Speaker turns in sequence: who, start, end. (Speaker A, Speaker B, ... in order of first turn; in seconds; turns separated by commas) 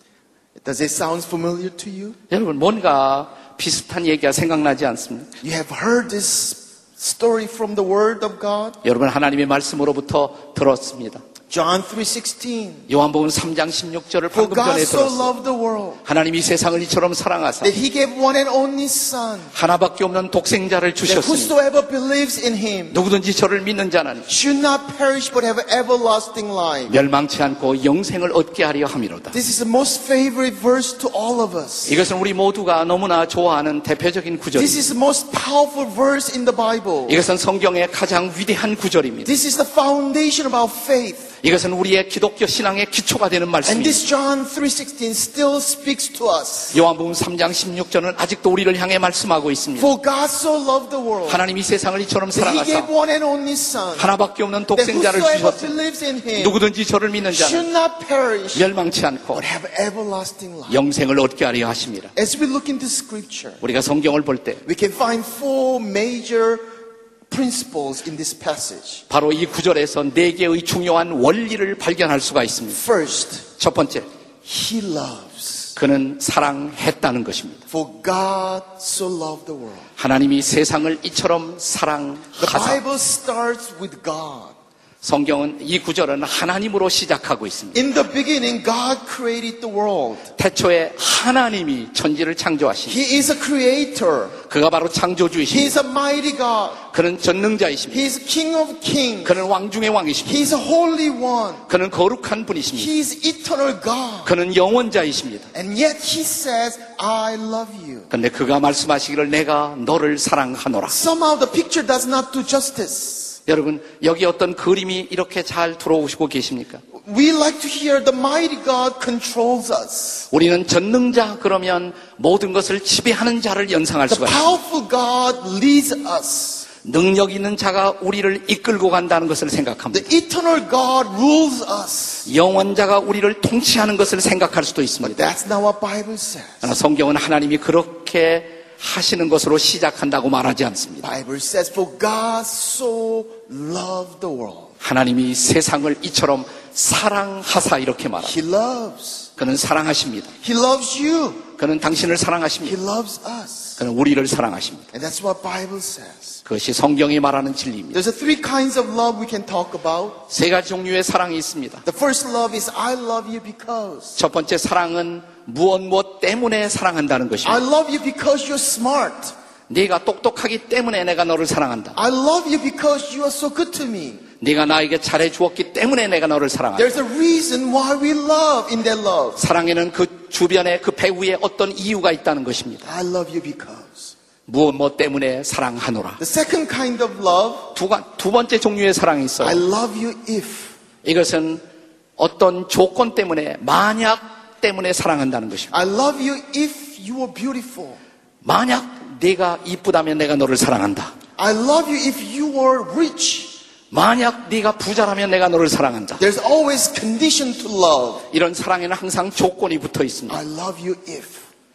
Speaker A: 0.6-2.2, Speaker B: 2.3-5.3, Speaker A: 5.4-8.8, Speaker B: 8.8-11.2, Speaker A: 11.5-12.9, Speaker B: 12.9-15.3, Speaker A: 14.3-16.0, Speaker B: 16.0-17.7, Speaker A: 17.6-19.5, Speaker B: 19.5-21.5, Speaker A: 21.1-23.0, Speaker B: 22.9-24.3, Speaker A: 24.3-26.9, Speaker B: 26.9-29.4, Speaker A: 29.3-32.0, Speaker B: 31.9-34.9, Speaker A: 34.5-37.2, Speaker B: 37.1-39.3, Speaker A: 39.2-41.3, Speaker B: 41.4-44.0, Speaker A: 43.6-46.8, Speaker B: 46.7-49.9, Speaker A: 49.8-51.4, Speaker B: 51.3-52.9, Speaker A: 52.3-54.1, Speaker B: 54.0-55.7, Speaker A: 54.7-56.6, Speaker B: 56.4-57.7, Speaker A: 57.3-58.7, Speaker B: 58.5-59.4, Speaker A: 59.3-60.8, Speaker B: 60.7-62.1, Speaker A: 62.1-63.6, Speaker B: 63.6-64.6, Speaker A: 64.7-66.7, Speaker A: 67.3-69.0, Speaker B: 69.1-72.8, Speaker A: 72.7-73.4, Speaker B: 73.6-74.1, Speaker A: 74.4-75.7, Speaker B: 75.8-77.6, Speaker A: 77.7-79.9, Speaker B: 80.0-82.8, Speaker A: 82.4-84.5, Speaker B: 85.0-87.8, Speaker A: 87.7-90.3, Speaker B: 90.4-93.0, Speaker A: 92.9-94.4, Speaker B: 94.5-95.8, Speaker A: 95.5-96.8, Speaker B: 96.9-98.1, Speaker A: 97.9-99.4, Speaker B: 99.2-100.5, Speaker A: 100.2-101.7, Speaker B: 101.7-102.9, Speaker A: 102.8-104.3, Speaker B: 104.2-105.5, Speaker A: 105.5-108.1, Speaker B: 108.1-111.0, Speaker A: 110.9-113.4, Speaker B: 113.5-116.8, Speaker A: 117.0-120.2, Speaker B: 120.3-124.6, Speaker A: 124.1-126.7, Speaker B: 126.8-130.1, Speaker A: 129.9-132.3, Speaker B: 132.2-135.3, Speaker A: 135.0-136.7, Speaker B: 136.6-141.1, Speaker A: 141.0-144.7, Speaker B: 144.8-148.4, Speaker A: 148.2-149.3, Speaker B: 149.4-150.3, Speaker A: 150.4-151.4, Speaker B: 151.6-152.8, Speaker A: 152.6-153.8, Speaker B: 153.8-154.9, Speaker A: 154.9-156.4, Speaker B: 156.4-158.0, Speaker A: 157.9-160.2, Speaker B: 160.3-161.8, Speaker A: 161.8-164.2, Speaker B: 164.2-167.6, Speaker A: 167.4-169.3, Speaker B: 169.7-172.0, Speaker A: 171.9-174.2, Speaker B: 174.4-176.9, Speaker A: 176.8-179.4, Speaker B: 179.4-182.9, Speaker A: 182.8-184.1, Speaker B: 184.5-186.2, Speaker A: 186.2-187.7, Speaker B: 187.7-189.6, Speaker A: 189.4-190.7, Speaker B: 191.0-191.6, Speaker B: 192.2-195.7, Speaker A: 195.7-198.0, Speaker B: 198.4-201.1, Speaker A: 201.4-203.5, Speaker B: 203.9-206.2, Speaker A: 206.2-208.2, Speaker B: 208.3-210.4, Speaker A: 210.3-211.4